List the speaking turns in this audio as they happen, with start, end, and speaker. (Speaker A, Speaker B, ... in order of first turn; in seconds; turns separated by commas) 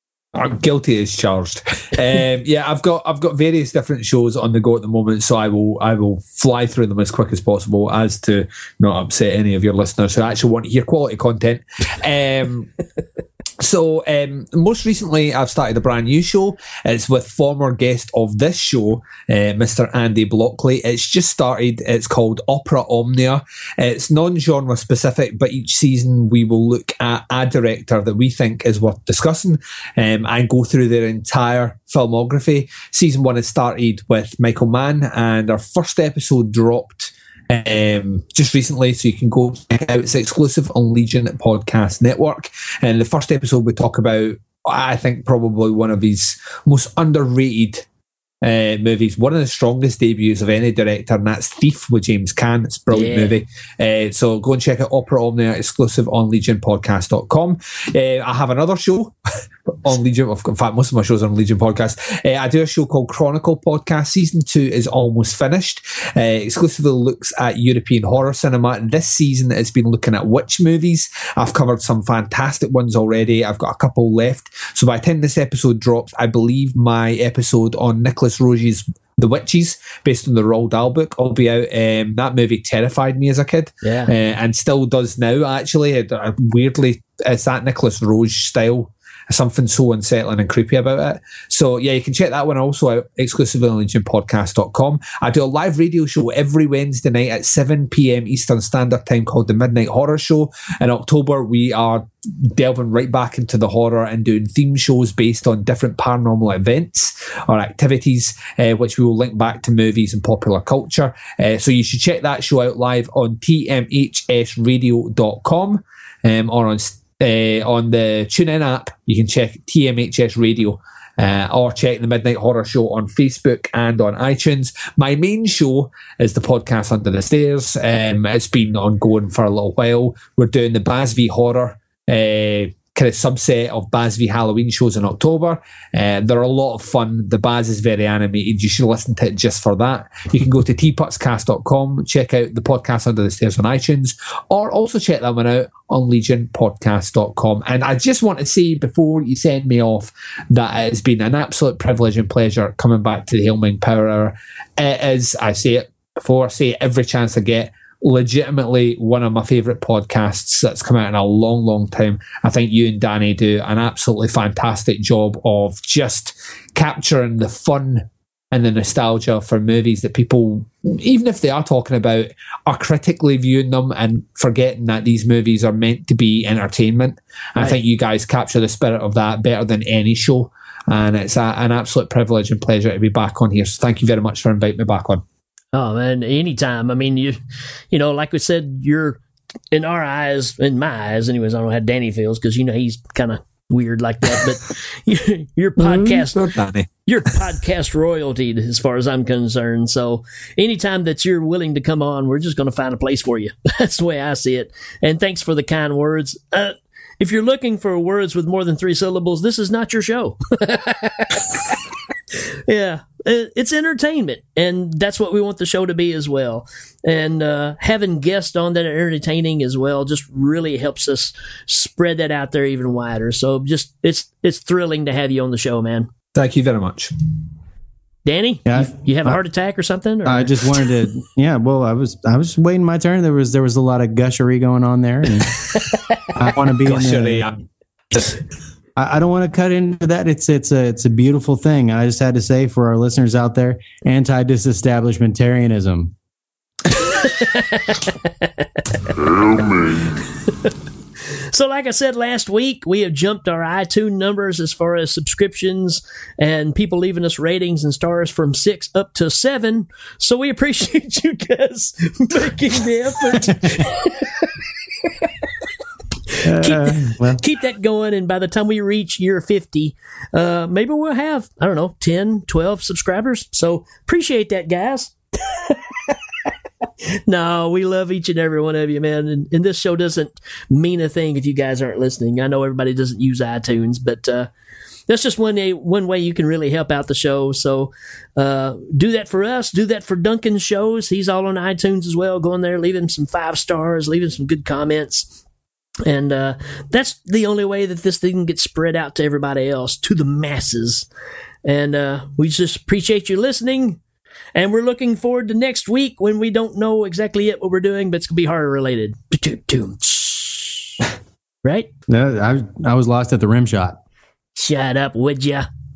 Speaker A: 0.3-12.7, Speaker A: 13.6-47.9, Speaker A: 48.4-59.1, Speaker B: 52.9-53.4, Speaker A: 59.8-185.2, Speaker B: 83.8-84.1, Speaker B: 185.7-187.4, Speaker B: 187.9-189.2, Speaker B: 189.7-196.4, Speaker A: 195.8-196.9, Speaker B: 197.1-211.6, Speaker B: 212.7-226.1, Speaker A: 226.3-227.1, Speaker B: 228.2-230.5, Speaker C: 228.7-229.4, Speaker C: 230.2-235.5, Speaker C: 236.3-237.5, Speaker A: 236.8-237.7, Speaker C: 238.9-246.1, Speaker B: 246.9-250.7, Speaker B: 251.5-264.5, Speaker B: 266.3-276.1, Speaker C: 266.4-267.4, Speaker B: 277.3-284.5, Speaker B: 285.1-295.4, Speaker B: 296.1-301.1, Speaker B: 301.6-304.0, Speaker B: 304.5-311.0, Speaker B: 311.6-311.9, Speaker C: 312.1-314.0, Speaker B: 314.6-315.6